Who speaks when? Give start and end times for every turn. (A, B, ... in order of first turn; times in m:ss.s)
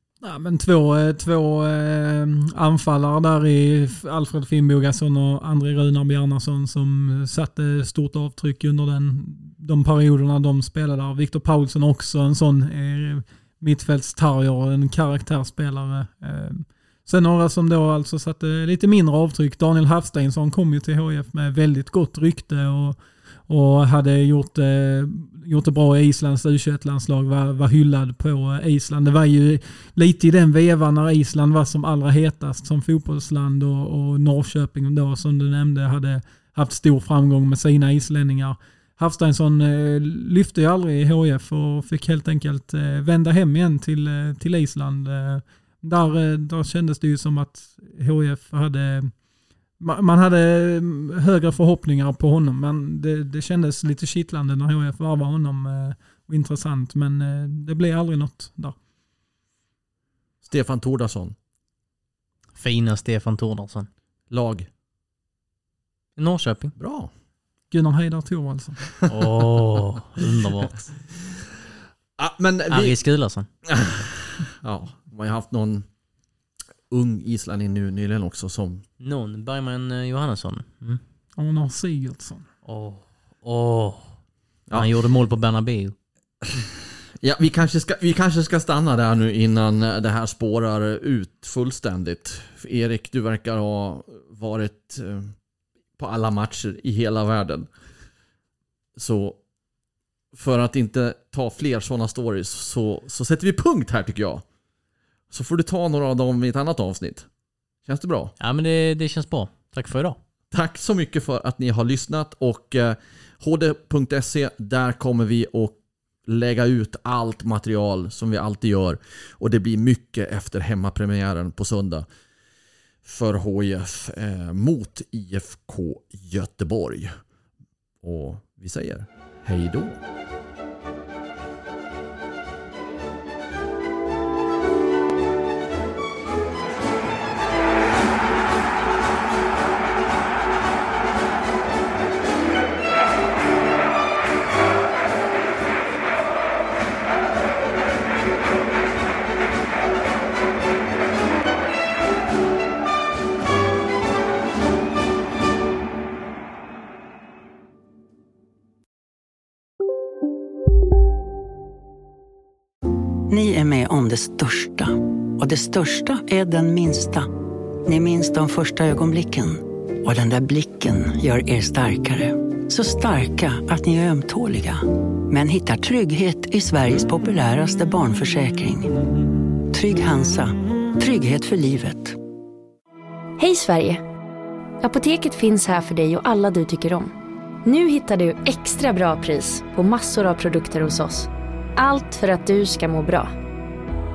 0:00.2-0:49.1 A
0:49.8-0:58.7 A
1:00.4-1:01.4 B
1:02.6-1:03.9 C
1:04.3-1:04.7 B
1:06.2-1:06.7 C
1:06.8-1:07.1 B
1:07.7-1:08.8 A
1:09.0-1:09.3 B
1:09.1-1:10.9 C
1:12.2-1:12.9 B
1:12.7-1:13.5 C
1:13.7-1:15.9 B
1:16.9-1:18.8 B
1:19.0-1:21.0 C
1:21.4-1:22.4 A
1:22.6-1:24.1 C
1:24.7-1:25.9 C
1:27.2-1:35.3 B
1:36.0-1:37.7 B
1:39.0-1:39.4 B
1:40.3-1:44.4 B
1:45.3-1:47.3 B
1:47.8-1:48.3 B
1:48.4-1:50.2 C
1:50.5-2:02.0 B
2:03.0-2:07.1 B
2:08.0-2:09.9 B
2:43.3-2:47.3 D
2:47.8-2:58.9 D
2:59.7-3:02.2 D
3:03.4-3:04.0 E
3:04.8-3:07.1 E
3:07.6-3:13.3 E